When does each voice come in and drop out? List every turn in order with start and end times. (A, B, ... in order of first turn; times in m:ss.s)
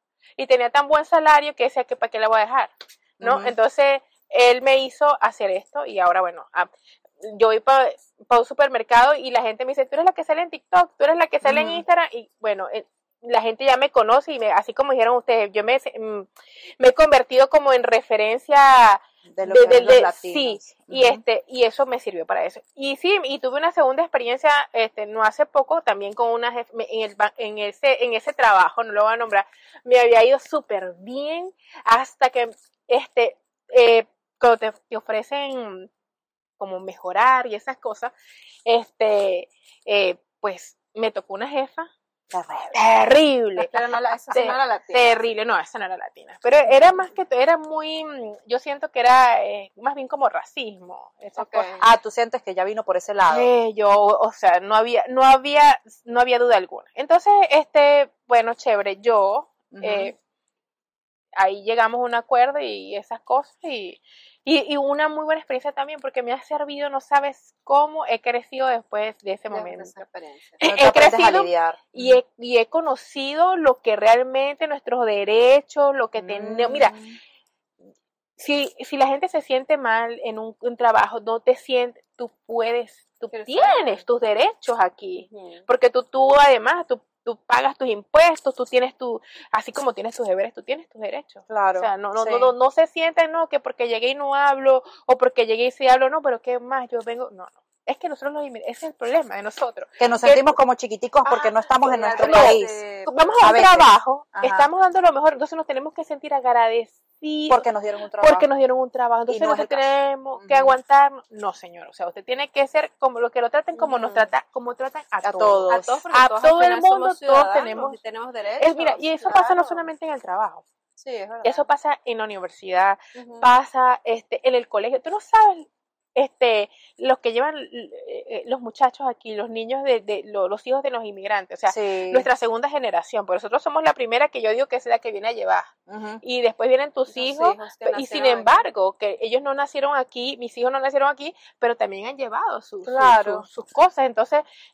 0:00.4-0:35.9 A
0:03.2-0:03.5 B
0:11.4-0:11.8 B
0:19.3-0:21.2 B
0:36.6-0:38.1 A
0:38.6-0:41.9 A
0:42.3-0:42.8 B
0:42.7-0:43.8 A
0:43.6-0:45.2 C
0:44.3-0:51.8 A
0:46.7-0:47.0 B
0:51.4-0:51.8 C
0:51.8-0:53.5 B
0:53.3-1:00.2 A
0:59.7-1:00.1 B
1:01.4-1:10.0 A
1:09.5-1:10.6 C
1:10.6-1:17.0 A
1:10.6-1:12.2 B
1:16.2-1:17.2 B
1:18.4-1:40.5 A
1:23.3-1:24.0 C
1:25.3-1:25.6 C
1:31.5-1:32.5 B
1:40.0-1:42.8 B
1:41.2-1:43.3 C
1:42.2-1:47.7 A
1:43.4-1:44.7 B
1:47.5-1:48.5 B
1:48.2-1:58.0 A
1:49.3-1:50.8 B
1:53.8-1:54.3 C
1:55.2-1:56.0 B
1:55.7-1:59.9 C
1:58.6-2:00.6 A
2:01.0-2:01.7 C
2:01.4-2:15.7 A
2:03.1-2:03.5 C
2:11.7-2:12.3 B
2:15.9-2:16.2 B
2:16.2-2:24.4 A
2:17.1-2:18.6 C
2:22.8-2:23.4 B